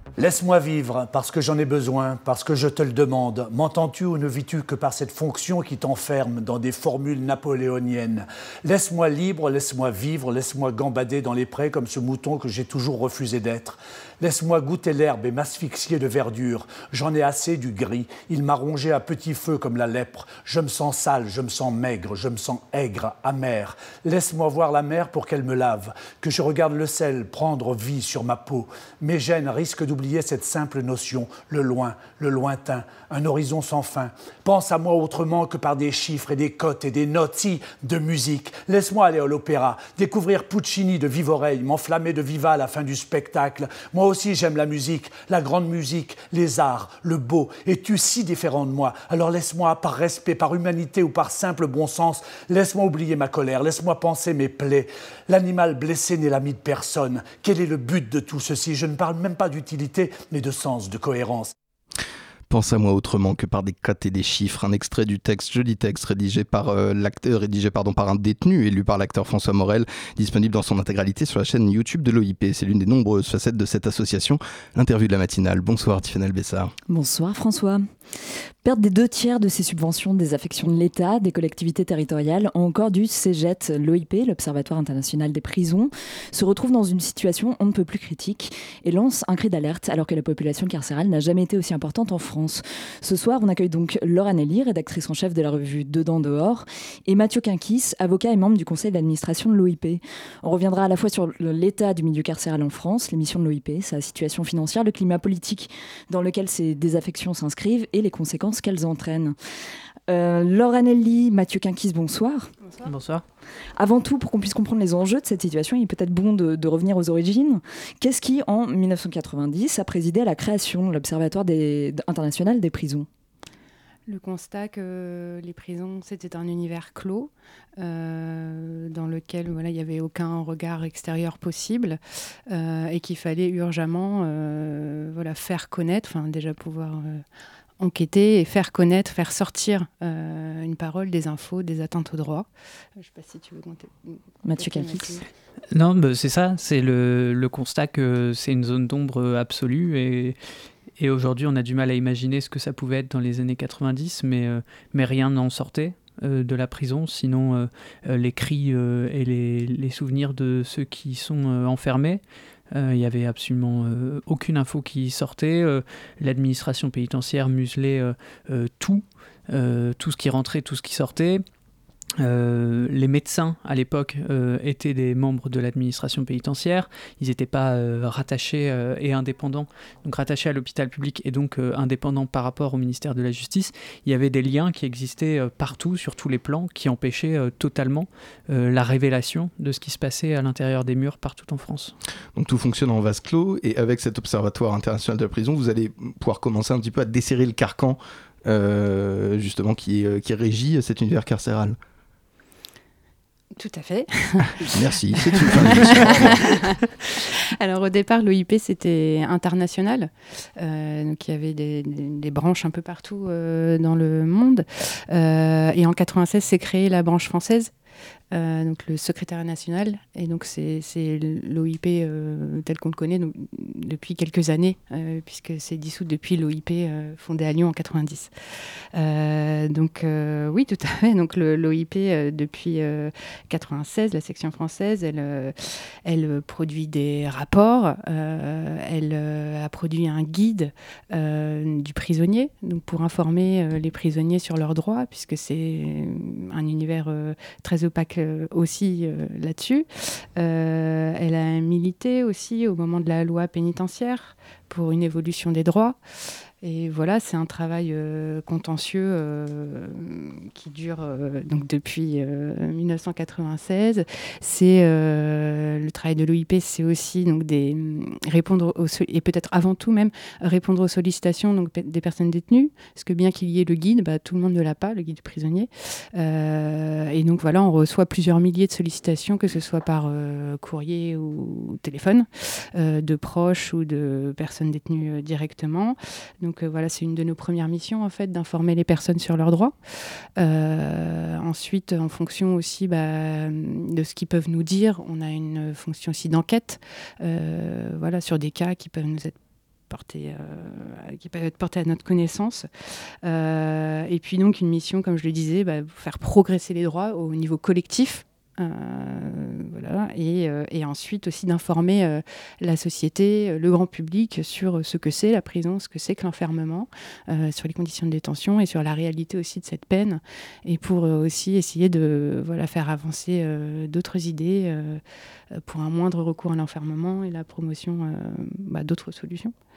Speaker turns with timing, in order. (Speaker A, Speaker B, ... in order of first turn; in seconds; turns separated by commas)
Speaker A: 0.2-61.5, Speaker B: 62.5-76.7, Speaker C: 76.9-109.3, Speaker C: 110.1-112.5, Speaker D: 112.6-112.9, Speaker E: 112.8-113.2, Speaker C: 113.8-123.1, Speaker D: 124.1-137.2, Speaker D: 137.8-142.5, Speaker D: 143.0-145.2, Speaker C: 144.4-145.2, Speaker E: 145.7-150.4, Speaker E: 151.0-171.4, Speaker E: 172.2-191.9, Speaker B: 192.3-201.8, Speaker D: 203.6-217.7, Speaker B: 204.7-206.5, Speaker D: 218.3-228.3, Speaker D: 228.9-249.8, Speaker D: 250.4-256.0, Speaker D: 256.6-289.7, Speaker D: 290.4-299.4, Speaker D: 299.9-302.7, Speaker D: 303.2-325.0, Speaker D: 325.5-329.5